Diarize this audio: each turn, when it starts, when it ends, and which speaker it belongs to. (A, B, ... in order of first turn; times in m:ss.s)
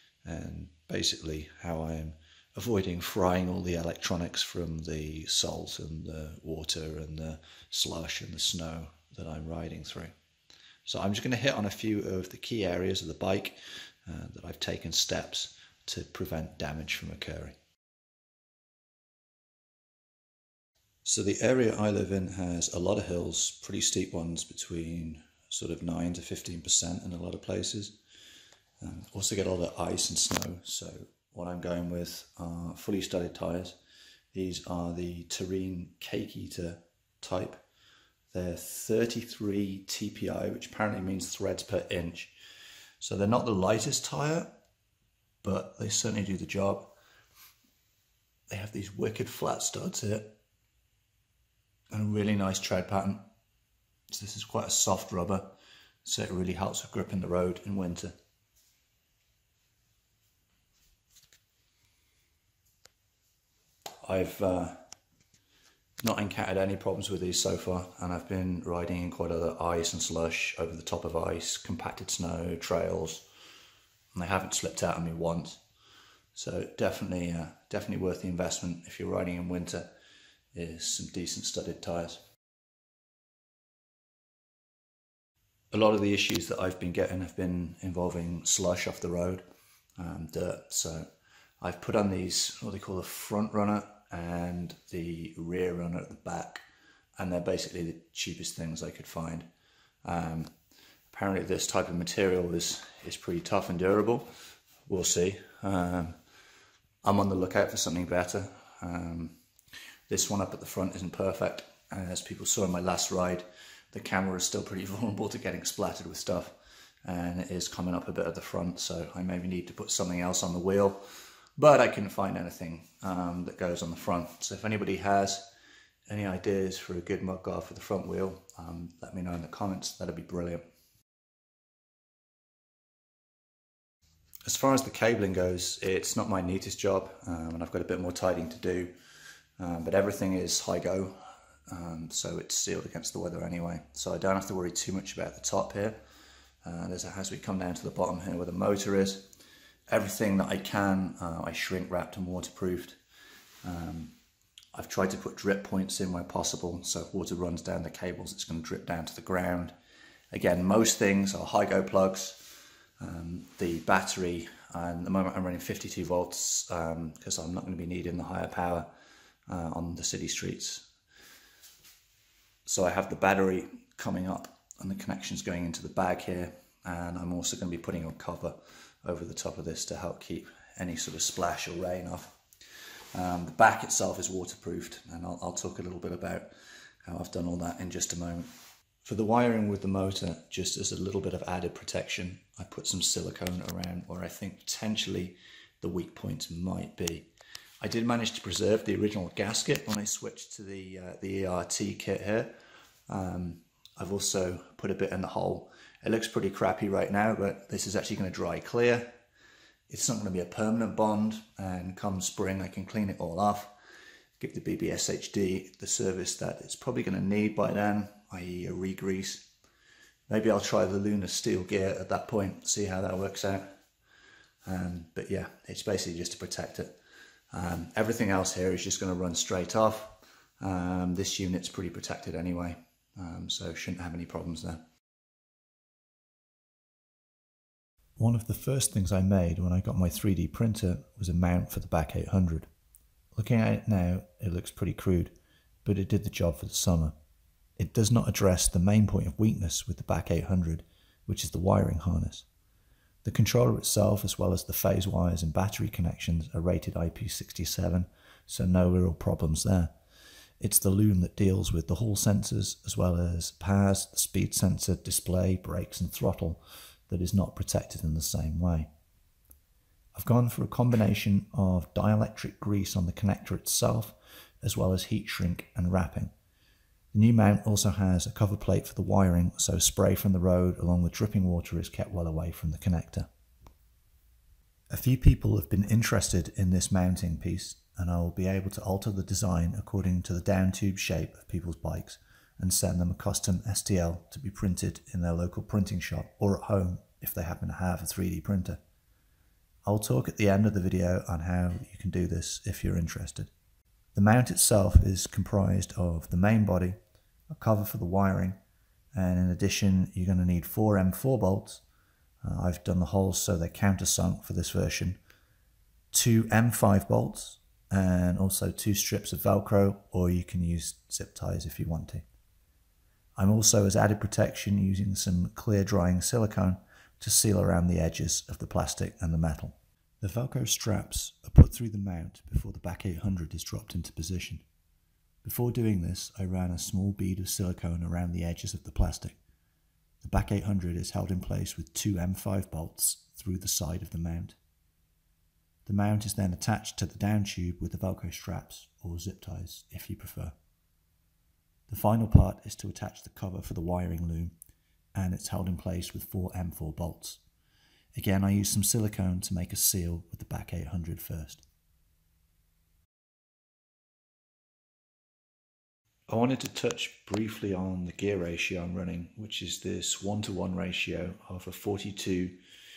0:00.2-0:10.1 A
0:10.8-0:17.6 A
0:21.0-0:28.0 A
0:28.8-0:33.8 A
0:34.3-0:37.6 A
0:38.3-0:42.3 A
0:43.0-0:44.5 A
0:45.4-0:46.9 A
0:48.5-0:50.3 A
0:51.9-0:53.2 A
0:54.1-0:55.5 A
0:56.0-0:58.1 A
1:04.0-1:04.8 A
1:06.0-1:13.2 A
1:14.1-1:15.6 A
1:16.3-1:19.9 A
1:20.5-1:22.2 A
1:25.7-1:29.4 A
1:30.0-1:31.1 A
1:31.6-1:36.6 A
1:37.2-1:39.5 A
1:40.0-1:40.5 A
1:41.1-1:44.3 A
1:44.9-1:46.2 A
1:47.0-1:49.3 A
1:50.1-1:56.5 A
1:57.0-2:01.0 A
2:01.6-2:05.4 A
2:06.1-2:10.6 A
2:14.4-2:18.9 A
2:19.6-2:21.2 A
2:21.7-2:26.0 A
2:26.6-2:29.2 A
2:29.9-2:33.0 A
2:33.6-2:34.1 A
2:34.7-2:39.7 A
2:40.3-2:48.9 A
2:49.5-2:50.8 A
2:52.6-3:02.4 A
3:03.1-3:06.5 A
3:07.0-3:08.5 A
3:09.0-3:17.3 A
3:17.8-3:22.5 A
3:23.1-3:29.1 A
3:29.9-3:33.7 A
3:34.4-3:39.5 A
3:40.3-3:43.7 A
3:44.6-3:46.9 A
3:47.5-3:54.8 A
3:58.2-4:02.7 A
4:03.3-4:05.3 A
4:05.8-4:07.1 A
4:07.8-4:12.4 A
4:13.2-4:19.9 A
4:20.6-4:28.9 A
4:30.1-4:36.3 A
4:37.1-4:43.3 A
4:44.9-4:58.8 A
4:59.8-5:03.5 A
5:04.1-5:07.0 A
5:07.5-5:08.6 A
5:09.1-5:11.8 A
5:12.4-5:15.2 A
5:16.1-5:22.2 A
5:23.4-5:34.6 A
5:35.4-5:39.4 A
5:40.2-5:44.6 A
5:45.8-5:50.5 A
5:51.9-5:54.5 A
5:55.1-5:57.4 A
5:58.1-6:01.6 A
6:06.3-6:12.6 A